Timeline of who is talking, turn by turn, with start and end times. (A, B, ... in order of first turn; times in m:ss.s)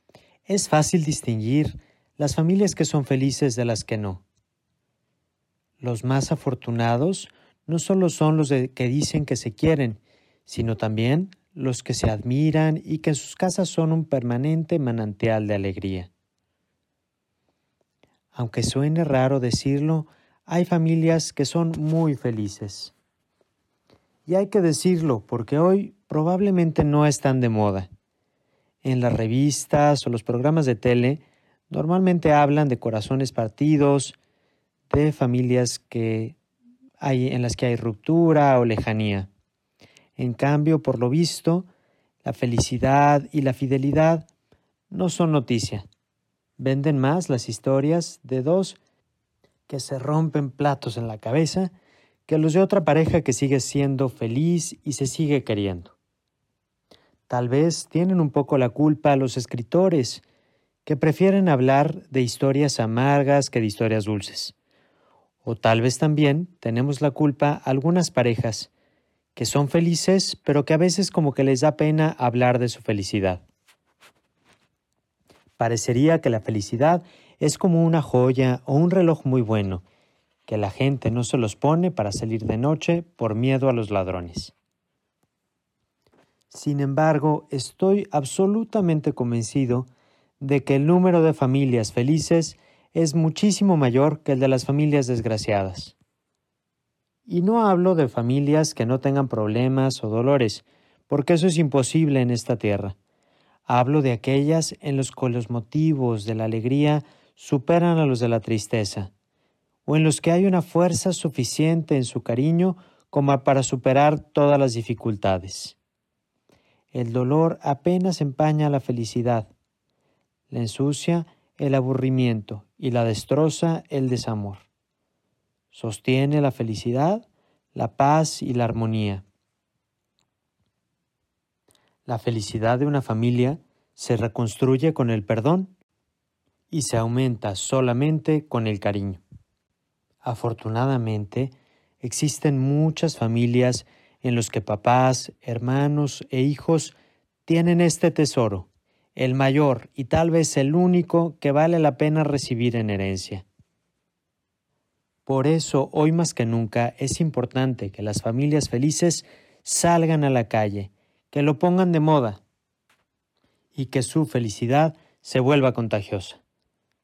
0:00.5-0:04.2 A
0:05.8-0:16.1 A
0:18.3-0:22.9 A
0:24.3-0:27.9 A
0:28.8-0:34.2 A
0:34.9-0:36.4 A
0:37.0-0:39.3 A
0:40.2-0:41.7 A
0:42.2-0:44.3 A
0:44.9-0:45.8 A
0:46.6-0:48.8 A
0:49.7-0:51.7 A
0:52.3-0:56.0 A
0:57.3-1:00.2 A
1:00.8-1:04.6 A
1:05.4-1:08.7 A
1:09.4-1:13.4 A
1:15.6-1:19.8 A
1:20.5-1:24.5 A
1:26.5-1:29.9 A
1:30.4-1:36.0 A
1:37.3-1:43.0 A
1:43.7-1:49.1 A
1:49.9-1:55.8 A
1:56.9-1:59.5 A
2:00.5-2:04.7 A
2:05.7-2:09.2 A
2:12.1-2:15.7 A
2:16.7-2:19.2 A
2:20.2-2:33.4 A
2:35.3-2:42.4 A
2:43.7-2:46.4 A